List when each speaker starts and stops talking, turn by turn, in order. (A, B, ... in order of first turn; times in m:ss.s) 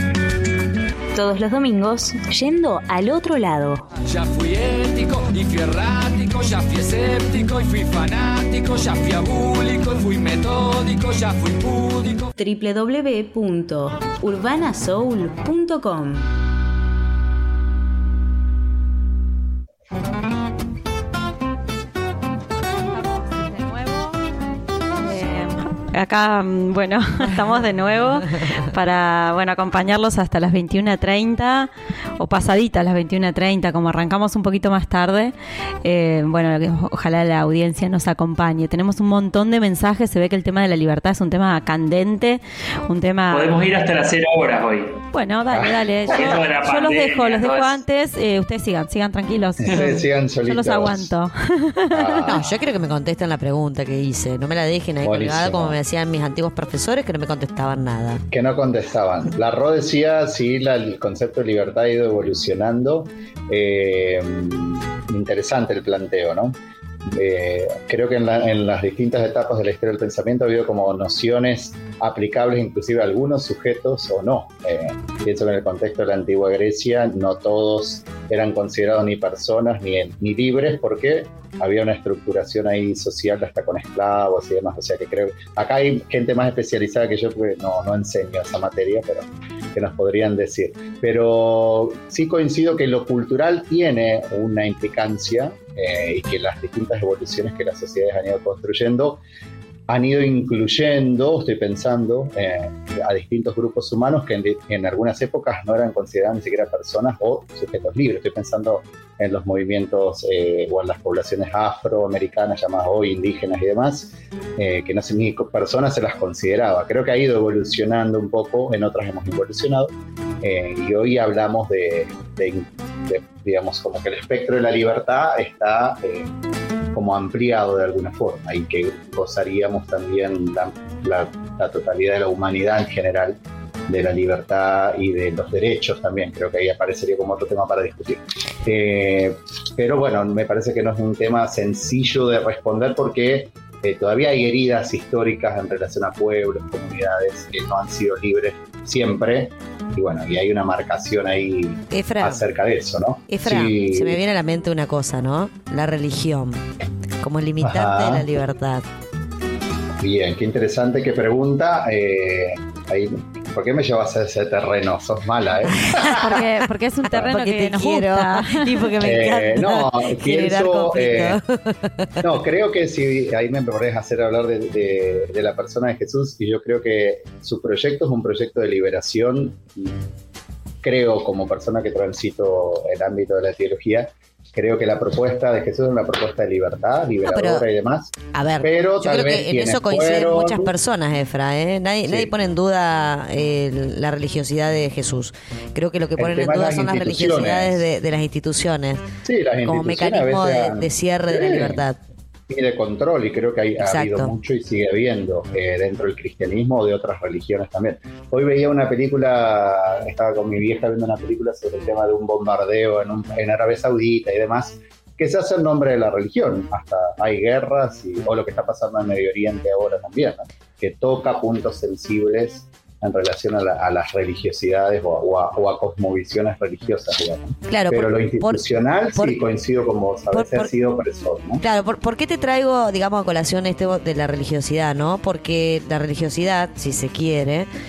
0:01.1-0:03.8 A
0:04.0-0:12.3 B
0:12.4-0:16.2 A
0:23.0-0:24.1 C
0:25.0-0:43.5 C
0:43.3-0:45.0 D
0:45.1-0:52.3 C
0:45.5-0:46.4 E
0:46.1-0:47.8 D
0:49.6-0:51.1 E
0:51.9-0:52.5 E
0:52.3-0:58.2 F
0:55.0-0:55.8 E
0:58.3-1:39.2 E
1:39.9-2:06.3 E
2:06.9-2:34.2 E
2:31.9-2:32.4 F
2:33.3-2:36.6 F
2:37.2-2:38.8 F
2:37.6-2:38.4 E
2:40.0-2:46.2 E
2:45.8-2:52.4 F
2:46.0-2:48.9 C
2:49.0-2:51.4 E
2:52.2-3:00.0 E
3:00.8-3:10.7 E
3:07.2-3:07.6 F
3:08.3-3:19.0 F
3:12.0-3:12.3 E
3:16.2-3:17.8 E
3:19.2-3:21.8 E
3:19.6-3:22.0 F
3:22.5-3:51.6 E
3:23.8-3:24.3 F
3:47.7-3:49.4 F
3:50.3-3:50.7 F
3:51.6-3:57.7 F